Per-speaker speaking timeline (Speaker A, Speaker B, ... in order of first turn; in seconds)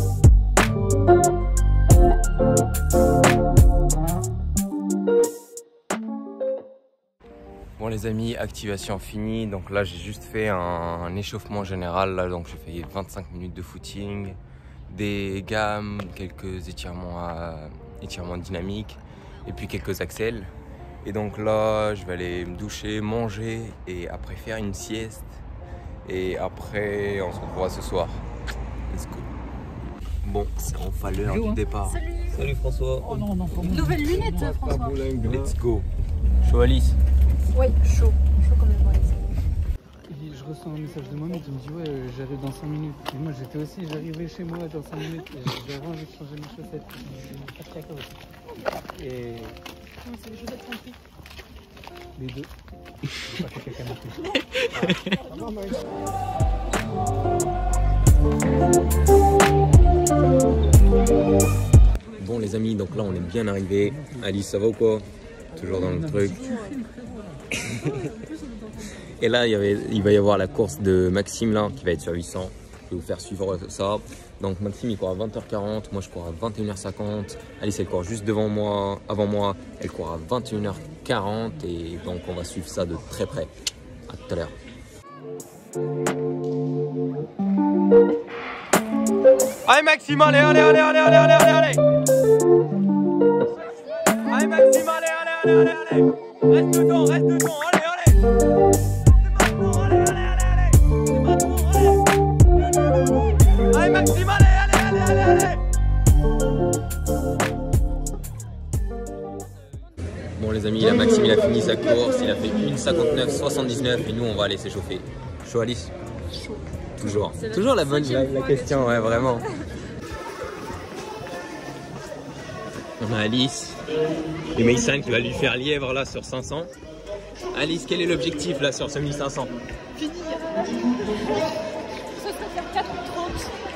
Speaker A: 7.8-20.5, 21.0-25.4, 26.1-28.2, 28.9-29.3, 30.2-35.9, 36.4-37.0, 62.2-66.8, 67.6-68.0, 69.2-83.5, 84.1-84.5, 89.7-91.8, 94.2-98.2, 99.2-102.0, 103.6-105.6, 110.4-115.9, 117.0-119.6, 123.0-123.8, 124.5-126.7, 127.5-129.5
Speaker B: 33.3-33.8, 40.1-48.1, 48.9-49.6, 52.2-52.5, 53.3-54.3, 66.9-67.2
Speaker C: 33.6-34.5, 37.5-39.1, 50.0-51.0, 117.5-119.0, 130.0-130.8, 132.1-133.5